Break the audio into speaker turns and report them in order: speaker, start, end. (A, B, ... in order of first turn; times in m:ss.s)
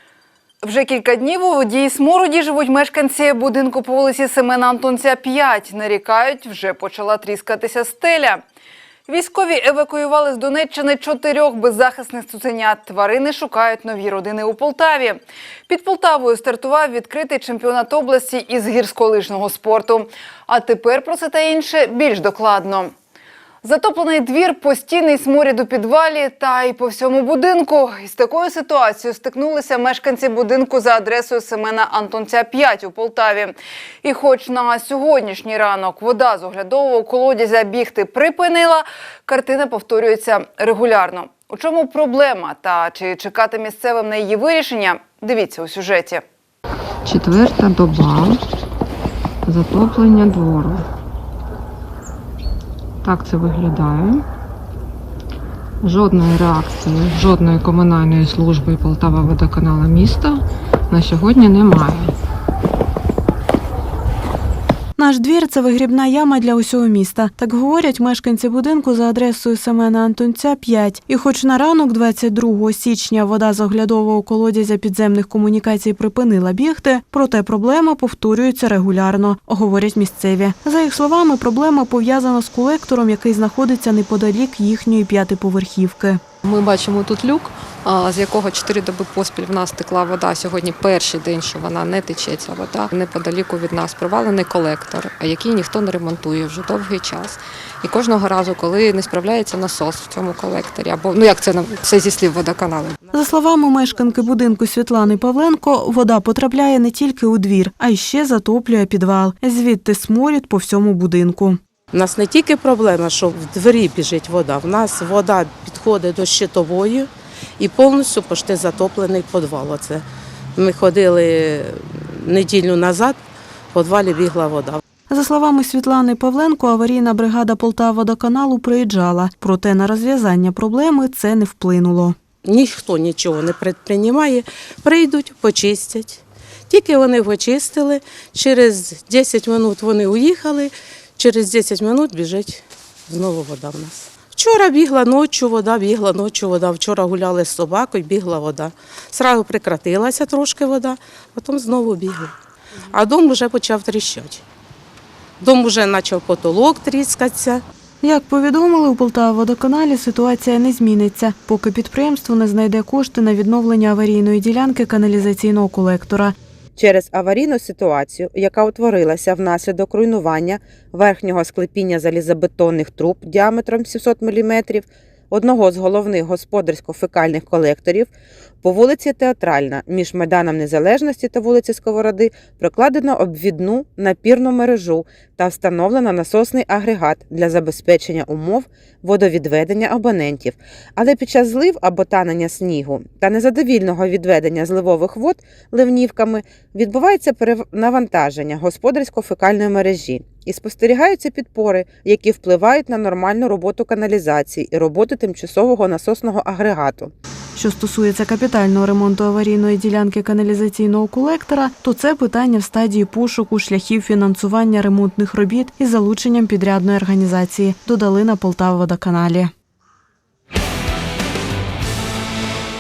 0:00.6-0:08.4 A
0:09.1-0:22.9 A
0:23.6-0:46.2 A
0:47.0-0:48.4 B
0:49.5-0:50.8 B
0:53.0-0:54.2 B
0:55.8-1:02.1 B
1:05.0-1:26.2 C
1:26.4-1:43.0 B
1:43.1-1:51.6 C
1:51.9-2:00.0 D
2:00.6-2:03.2 D
2:03.7-2:04.8 D
2:05.1-2:12.2 C
2:12.4-2:32.3 D
2:32.9-2:34.4 D
2:35.4-2:37.6 D
2:38.0-2:46.4 C
2:46.8-2:58.1 E
2:58.6-3:27.1 E
3:27.6-3:39.5 C